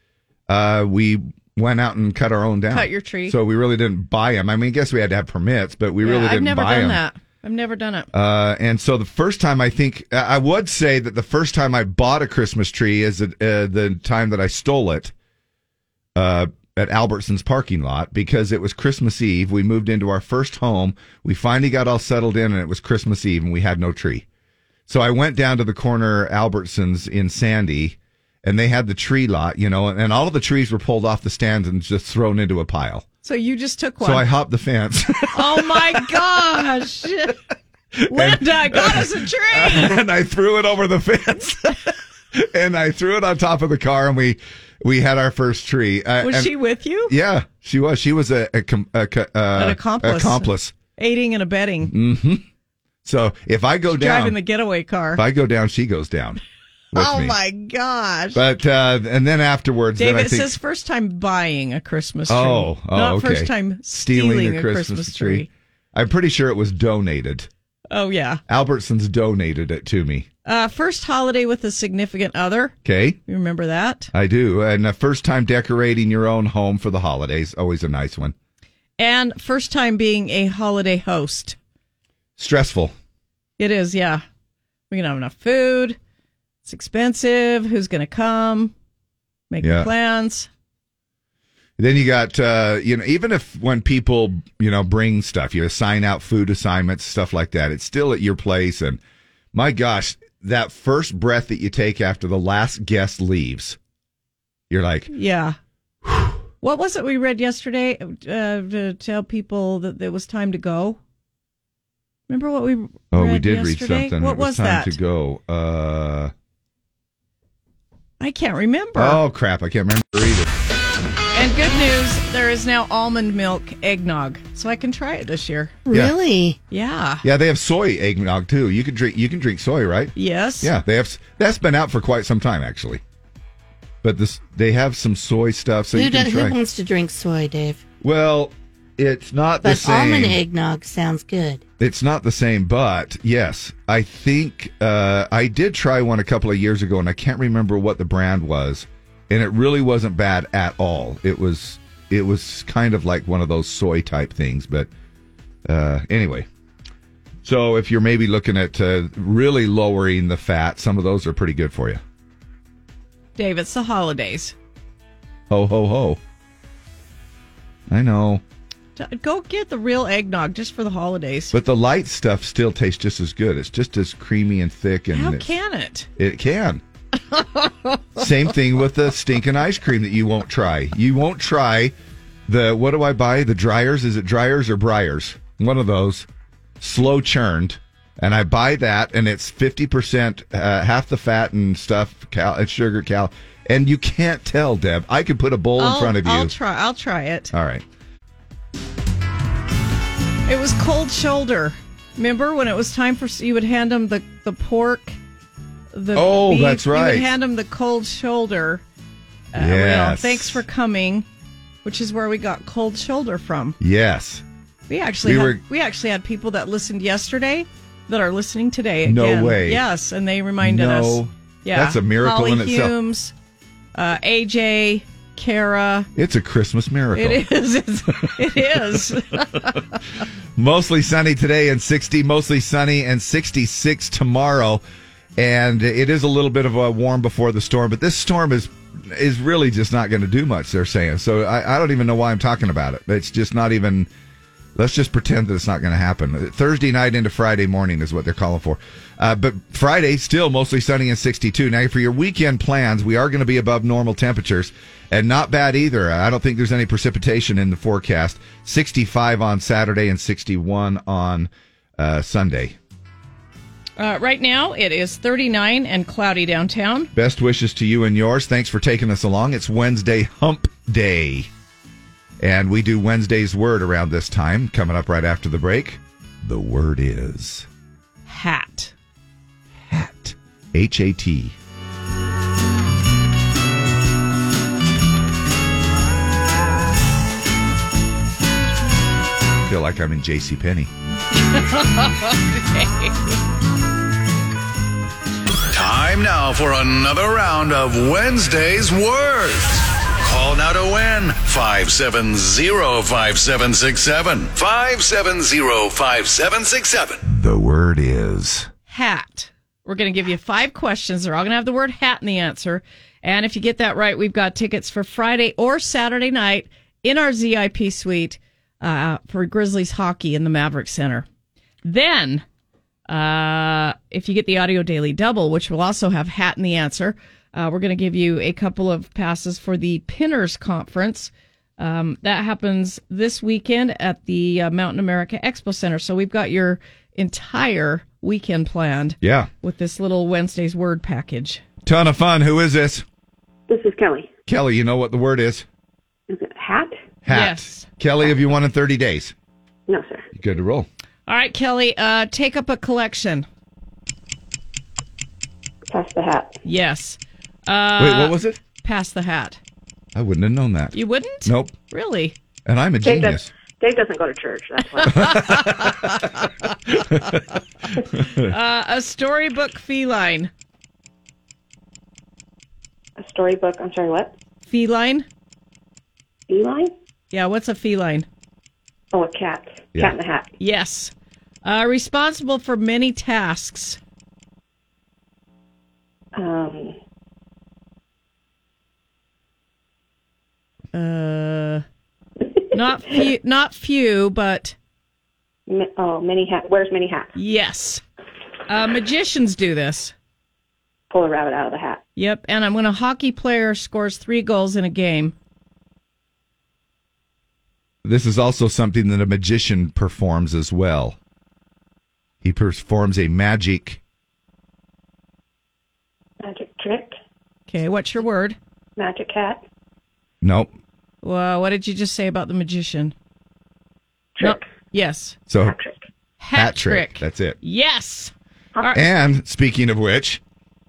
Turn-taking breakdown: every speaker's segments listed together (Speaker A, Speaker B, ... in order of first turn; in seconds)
Speaker A: 0.5-7.0, 8.1-15.1, 16.1-24.2, 24.9-33.1, 34.0-36.0, 38.0-41.8, 42.3-46.5, 47.1-50.7, 51.8-52.5, 53.0-54.4, 55.1-56.4, 56.9-57.4, 58.3-60.5, 62.3-67.5, 68.5-70.3, 72.8-73.2, 74.1-78.3, 82.4-83.0, 89.6-89.9, 91.8-99.0, 99.5-103.8, 104.7-105.1, 106.0-106.4, 113.1-116.3, 119.0-120.5, 125.9-126.2, 127.2-133.0, 134.0-136.6, 138.0-140.4, 141.8-154.9, 155.7-156.5, 157.4-162.0, 165.5-166.2, 167.9-168.4, 171.5-175.5, 176.2-176.8, 178.2-181.9, 182.5-186.3, 186.8-196.5, 197.5-197.8, 206.1-207.3, 209.6-210.6, 213.8-214.4, 215.2-215.6, 219.0-219.8, 220.6-222.9, 226.2-227.4, 230.6-234.8, 235.4-244.1, 244.8-262.8, 267.1-271.5, 272.4-277.7, 279.8-281.6, 289.7-290.9, 307.2-308.7, 339.2-339.5, 341.9-343.1, 344.5-345.7, 347.2-349.3, 350.4-350.9, 358.0-358.6, 360.1-361.7, 362.7-363.5, 365.1-365.9, 367.1-367.4, 368.2-368.5, 408.0-411.2, 412.4-414.0, 420.4-420.7, 425.5-425.7, 426.5-427.6, 428.9-430.4
Speaker B: 2.7-3.4, 6.0-8.1, 33.2-34.3, 35.3-37.4, 38.1-40.0, 46.2-47.1, 49.5-51.9, 53.9-55.2, 56.9-58.4, 60.0-65.5, 67.9-68.4, 70.5-72.8, 73.3-74.1, 79.0-81.6, 83.6-84.2, 84.9-86.0, 86.7-88.7, 89.5-90.5, 105.1-105.6, 106.6-111.0, 112.3-114.9, 118.2-119.2, 121.3-125.8, 126.7-127.2, 130.2-130.7, 163.4-164.6, 169.0-171.6, 175.1-176.1, 177.3-178.1, 195.8-197.5, 200.5-205.2, 205.9-208.8, 209.5-211.3, 211.8-213.8, 214.9-223.3, 223.9-226.1, 227.2-230.0, 264.0-267.1, 278.3-278.9, 291.5-293.1, 308.9-321.3, 321.8-322.4, 323.1-341.6, 347.3-347.9, 351.3-353.5, 356.6-359.6, 360.9-362.4, 365.1-365.9, 368.4-370.5, 374.7-375.3, 377.3-378.3, 380.6-381.1, 381.6-384.0, 390.9-391.8, 392.7-394.8, 397.4-398.0, 398.7-400.1, 402.2-405.4, 417.7-418.6, 421.2-423.1, 424.4-425.4, 426.4-428.3
Speaker C: 125.9-126.6, 135.9-137.8, 139.6-141.6
Speaker D: 295.7-307.2
Speaker E: 343.7-344.3, 346.3-347.0, 349.9-350.3, 355.9-356.6, 363.0-365.4, 373.2-374.3, 376.5-376.9, 379.1-380.5, 386.4-387.0, 395.7-397.3, 401.1-402.0, 416.4-417.2, 419.0-419.6, 424.4-424.6, 425.6-426.0